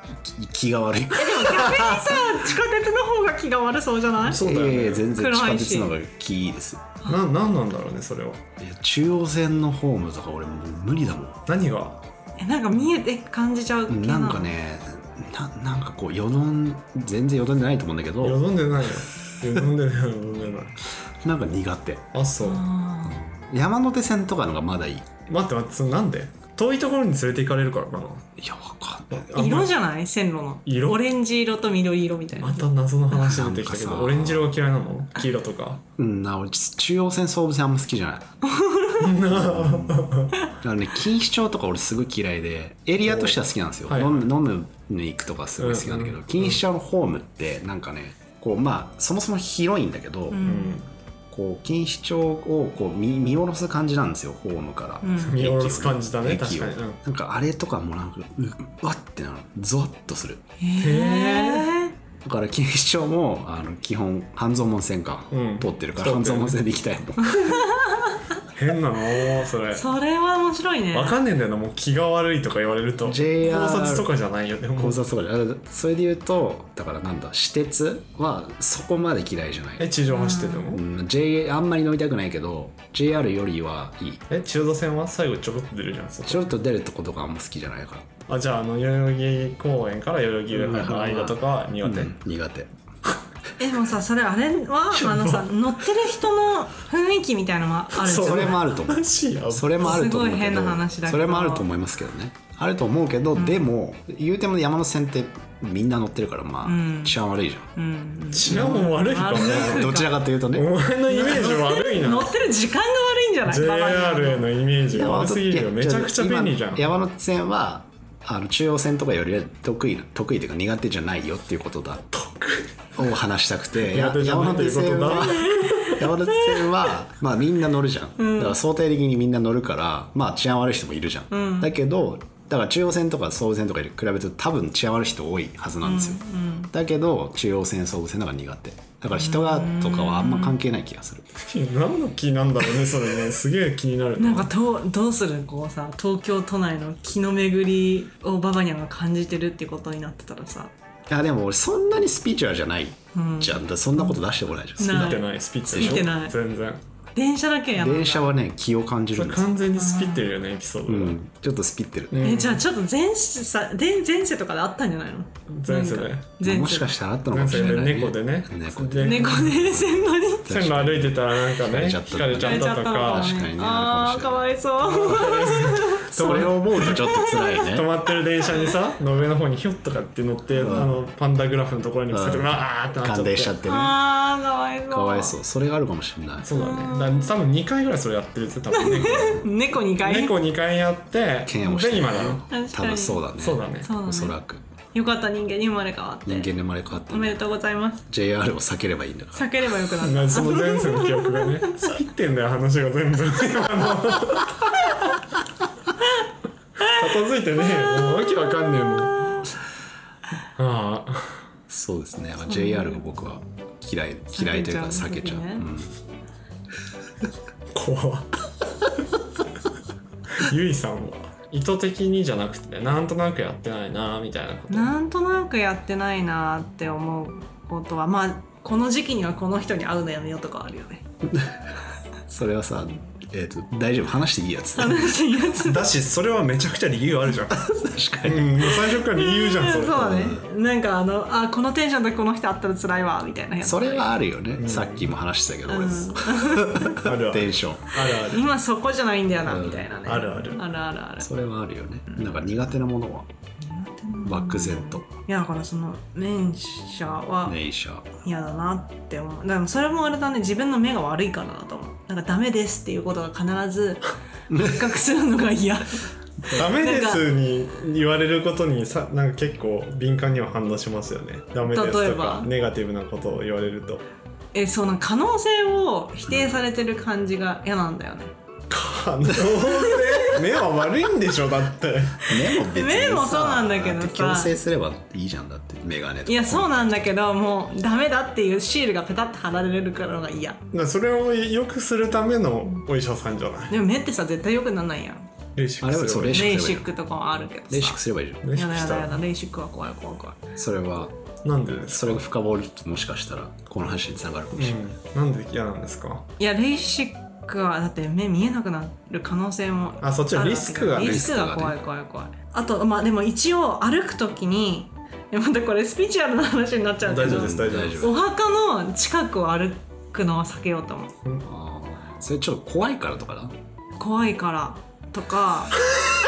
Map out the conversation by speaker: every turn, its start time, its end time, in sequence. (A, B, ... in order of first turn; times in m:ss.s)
0:00.1-0:02.1 A
0:01.1-0:04.4 B
0:04.2-0:05.1 C
0:04.4-0:06.9 A
0:05.1-0:05.9 B
0:07.1-0:08.4 C
0:08.6-0:11.4 A
0:11.5-0:12.0 C
0:12.4-0:14.5 B
0:13.9-0:18.4 A
0:18.2-0:20.8 C
0:21.2-0:22.0 A
0:22.1-0:22.6 C
0:22.4-0:23.2 B
0:23.0-0:25.1 A
0:25.3-0:28.3 C
0:28.4-0:29.3 A
0:29.1-0:29.7 C
0:29.3-0:32.6 B
0:30.6-0:31.0 C
0:32.4-0:35.8 C
0:33.1-0:34.5 A
0:36.0-0:38.3 A
0:38.4-0:39.1 B
0:39.0-0:40.4 C
0:39.3-0:50.5 A
0:43.0-0:43.4 C
0:43.9-0:44.3 C
0:45.6-0:46.6 C
0:50.3-0:50.8 B
0:50.4-0:50.9 C
0:51.3-1:00.4 A
0:55.0-0:55.4 B
0:55.2-0:57.0 C
1:00.6-1:01.9 B
1:00.8-1:01.7 C
1:02.2-1:07.6 A
1:05.3-1:06.6 C
1:07.3-1:08.2 B
1:08.5-1:09.8 C
1:09.7-1:11.2 B
1:10.9-1:15.0 C
1:13.0-1:14.1 A
1:14.8-1:19.9 A
1:19.8-1:20.8 C
1:20.1-1:20.7 B
1:20.7-1:24.2 A
1:24.3-1:26.5 C
1:26.2-1:28.1 A
1:28.3-1:32.1 C
1:30.5-1:32.7 A
1:33.6-1:38.6 B
1:34.9-1:35.5 C
1:38.0-1:39.8 C
1:38.0-1:47.7 A
1:39.8-1:41.7 B
1:43.3-1:43.6 B
1:46.6-1:47.2 B
1:47.8-1:50.1 B
1:48.3-1:52.4 C
1:49.3-1:51.5 A
1:51.1-1:54.5 B
1:53.4-1:56.9 C
1:54.9-2:02.1 A
2:02.2-2:02.7 C
2:02.9-2:16.2 A
2:03.8-2:06.0 C
2:05.4-2:06.7 B
2:08.2-2:08.6 B
2:11.3-2:11.7 B
2:15.8-2:16.7 B
2:16.7-2:21.3 A
2:19.1-2:20.6 B
2:21.4-2:24.5 C
2:24.2-2:30.7 B
2:31.1-2:36.1 A
2:33.1-2:34.2 B
2:34.8-2:36.3 B
2:34.9-2:36.8 C
2:37.1-2:38.3 B
2:37.8-2:39.5 A
2:39.1-2:41.2 C
2:39.8-2:40.3 B
2:40.9-2:42.3 A
2:42.1-2:42.6 C
2:42.2-2:46.9 B
2:45.5-2:46.3 C
2:46.4-2:57.9 A
2:47.3-2:49.6 C
2:49.0-2:50.5 B
2:50.4-2:53.4 C
2:52.3-2:57.6 B
2:54.8-2:57.0 C
2:57.6-3:03.5 C
3:00.6-3:00.9 A
3:02.1-3:04.0 A
3:03.6-3:05.4 B
3:04.9-3:06.5 A
3:06.4-3:09.5 C
3:06.5-3:07.3 B
3:08.7-3:10.3 B
3:10.0-3:12.4 C
3:11.4-3:14.6 A
3:12.5-3:13.2 B
3:13.4-3:13.9 C
3:13.8-3:14.4 B
3:14.9-3:16.5 B
3:16.2-3:17.4 A
3:17.1-3:18.0 B
3:18.1-3:19.5 A
3:19.3-3:21.9 B
3:20.0-3:24.7 C
3:26.8-3:29.4 C
3:27.6-3:29.4 B
3:30.6-3:31.4 C
3:31.7-3:35.9 A
3:32.4-3:33.0 B
3:34.3-3:35.7 B
3:37.7-3:38.3 C
3:40.4-3:44.9 C
3:44.7-3:51.0 B
3:51.2-3:51.7 A
3:52.3-3:55.2 A
3:54.7-3:55.9 B
3:55.5-3:57.7 C
3:57.5-3:58.8 A
3:58.2-4:00.4 C
3:58.9-4:04.2 B
4:00.0-4:00.4 A
4:03.6-4:07.9 A
4:04.6-4:05.1 C
4:05.7-4:07.0 B
4:06.9-4:08.5 C
4:08.2-4:11.3 B
4:09.4-4:09.9 A
4:10.0-4:10.6 C
4:11.2-4:13.3 A
4:13.6-4:17.6 B
4:14.2-4:15.0 A
4:17.4-4:18.0 A
4:18.2-4:27.2 B
4:24.5-4:24.9 A
4:26.5-4:34.0 C
4:31.6-4:32.5 B
4:34.5-4:38.3 B
4:38.7-4:42.3 C
4:42.2-4:47.1 A
4:42.6-4:44.5 B
4:46.2-4:50.6 B
4:50.7-4:53.7 C
4:53.7-4:55.2 B
4:55.6-4:56.5 C
4:55.8-4:56.9 A
4:56.3-4:58.0 B
4:57.7-4:58.4 A
4:58.4-4:59.2 C
4:58.5-5:00.4 B
5:00.6-5:01.1 A
5:01.4-5:02.2 C
5:01.9-5:04.8 A
5:04.5-5:06.3 C
5:06.4-5:21.1 B
5:10.0-5:11.3 C
5:11.0-5:11.8 A
5:17.0-5:18.1 C
5:17.2-5:18.2 A
5:21.4-5:23.5 A
5:24.0-5:25.8 B